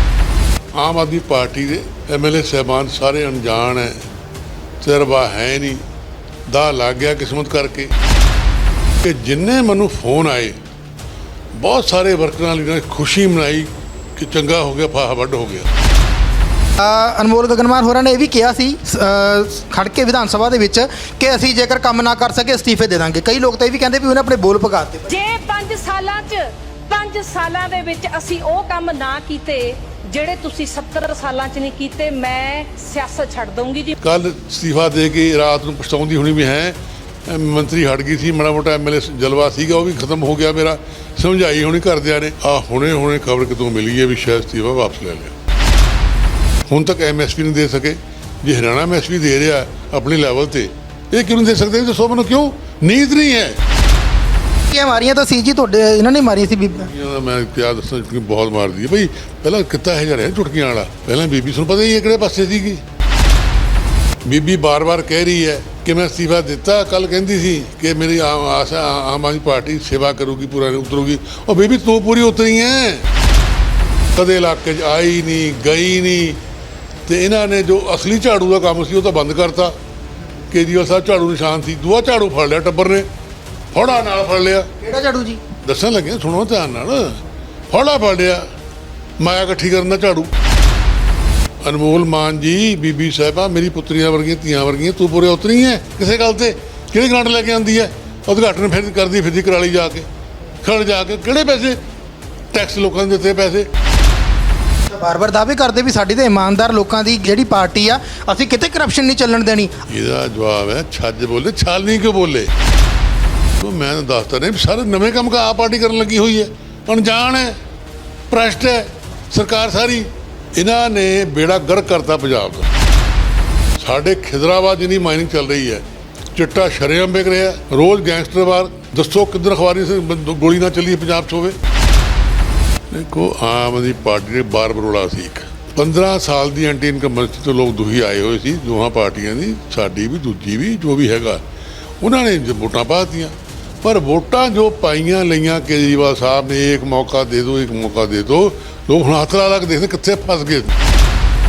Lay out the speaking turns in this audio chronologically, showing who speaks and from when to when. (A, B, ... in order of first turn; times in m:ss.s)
0:00.8-0:04.1 A
0:04.8-0:05.8 A
0:06.5-0:07.9 A
0:09.0-0:10.6 A
0:11.5-0:15.7 A
0:16.8-0:25.1 B
0:25.1-0:34.0 C
0:34.0-0:45.3 A
0:46.7-0:53.6 A
0:54.7-0:56.9 B
0:56.7-1:02.8 A
1:04.2-1:13.1 A
1:14.2-1:16.4 A
1:17.1-1:19.8 A
1:20.5-1:23.1 A
1:23.7-1:24.7 A
1:24.8-1:25.4 B
1:25.6-1:28.5 A
1:29.2-1:30.3 A
1:31.6-1:40.1 A
1:40.6-1:41.8 A
1:42.5-1:43.7 A
1:44.9-1:49.8 B
1:49.9-1:52.5 A
1:53.6-1:57.6 A
1:58.3-2:02.7 A
2:03.8-2:05.8 A
2:06.3-2:11.6 A
2:12.9-2:21.4 A
2:22.0-2:30.8 A